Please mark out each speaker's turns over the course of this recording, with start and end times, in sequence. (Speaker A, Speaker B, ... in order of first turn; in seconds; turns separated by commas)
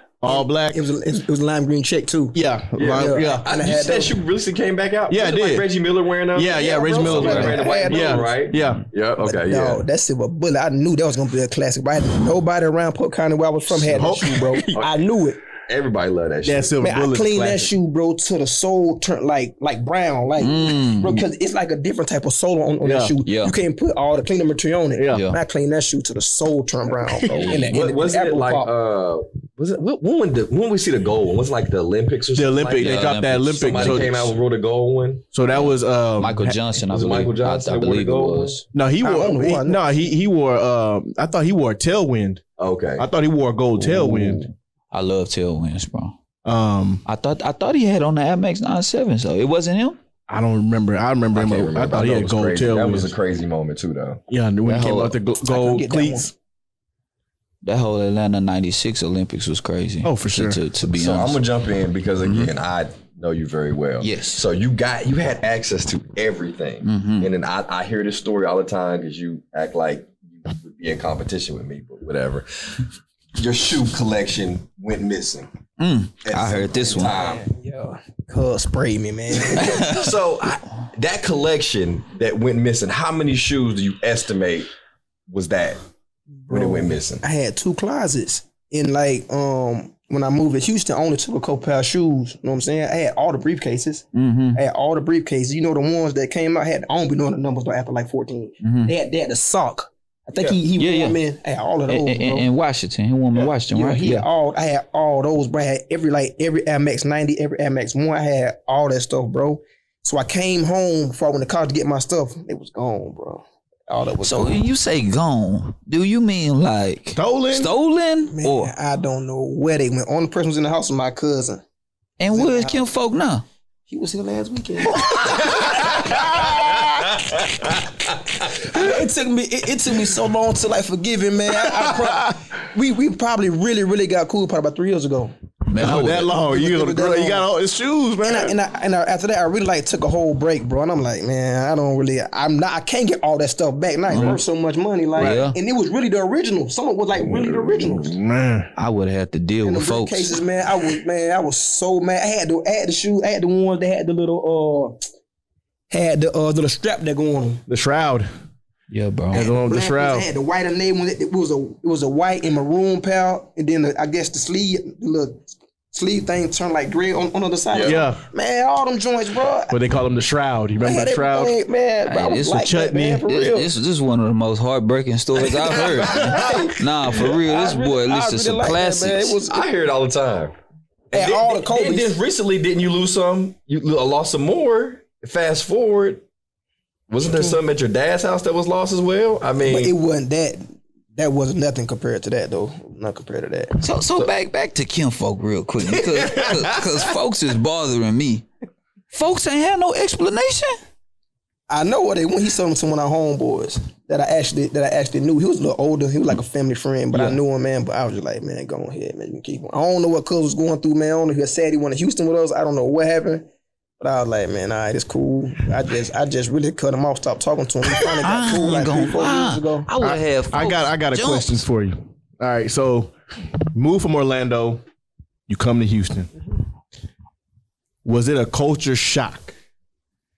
Speaker A: 0.2-0.8, Speaker B: 0.2-2.4, Speaker A: 2.3-3.5, Speaker C: 2.8-9.8, Speaker B: 2.9-4.1, Speaker A: 5.1-5.7, Speaker A: 6.3-8.8, Speaker B: 6.5-8.3, Speaker B: 9.2-15.4, Speaker A: 13.9-14.8, Speaker C: 15.6-16.7, Speaker A: 16.4-17.7, Speaker B: 16.8-28.7, Speaker D: 20.4-21.2, Speaker A: 22.8-23.1, Speaker D: 23.2-23.5, Speaker A: 24.9-25.3, Speaker D: 25.1-25.4, Speaker A: 27.1-27.5, Speaker C: 27.3-35.2, Speaker A: 32.3-34.3, Speaker D: 32.8-34.2, Speaker A: 35.3-36.6, Speaker D: 35.5-38.6, Speaker C: 36.8-38.6, Speaker A: 38.7-42.4, Speaker B: 39.0-39.9, Speaker C: 42.6-43.1, Speaker A: 43.0-44.4, Speaker D: 43.8-46.2, Speaker A: 46.4-47.0, Speaker D: 47.0-50.0, Speaker A: 50.3-53.1, Speaker C: 51.3-54.2, Speaker A: 54.3-56.3, Speaker D: 54.6-55.1, Speaker B: 55.4-56.3, Speaker D: 57.6-61.4, Speaker A: 60.0-60.6, Speaker C: 60.8-75.5, Speaker D: 62.2-62.5, Speaker D: 64.0-64.4, Speaker D: 66.8-67.3, Speaker D: 75.8-77.2, Speaker C: 76.2-77.4, Speaker B: 77.0-79.9, Speaker C: 79.4-84.7, Speaker D: 79.6-80.1, Speaker C: 85.3-85.8, Speaker B: 86.5-102.5, Speaker C: 86.5-87.2, Speaker D: 94.1-94.6, Speaker D: 98.6-98.9, Speaker D: 100.8-101.2, Speaker D: 101.9-104.2, Speaker B: 103.7-114.6, Speaker D: 114.2-118.7, Speaker A: 117.2-117.7, Speaker B: 118.3-121.6, Speaker D: 122.2-123.4, Speaker B: 122.3-122.9, Speaker B: 123.9-126.8, Speaker A: 125.6-127.1, Speaker B: 128.4-135.3, Speaker A: 131.6-132.4, Speaker D: 135.7-136.3, Speaker A: 135.8-138.5, Speaker B: 135.9-137.4, Speaker B: 138.2-148.2, Speaker D: 144.1-144.4, Speaker D: 145.2-145.6, Speaker A: 147.9-148.7, Speaker D: 148.8-150.3, Speaker B: 149.6-155.0, Speaker B: 155.9-157.6, Speaker A: 157.7-158.3, Speaker D: 158.9-159.5, Speaker A: 159.3-160.2, Speaker B: 159.3-169.7, Speaker C: 167.7-168.0, Speaker A: 167.8-168.2, Speaker A: 169.7-171.5, Speaker B: 170.8-173.7, Speaker D: 172.1-179.4, Speaker A: 172.6-173.2, Speaker B: 175.4-179.7, Speaker A: 176.2-176.5, Speaker C: 179.5-180.5, Speaker C: 181.1-186.2, Speaker B: 181.1-182.1, Speaker C: 187.1-189.9, Speaker B: 189.6-193.8, Speaker D: 193.8-198.4, Speaker C: 195.9-197.0, Speaker D: 199.1-200.8, Speaker B: 201.7-213.5, Speaker D: 207.1-207.4, Speaker B: 214.0-219.9, Speaker D: 218.2-221.6, Speaker A: 220.0-223.1, Speaker A: 223.7-224.8, Speaker A: 225.5-226.3, Speaker A: 228.0-229.5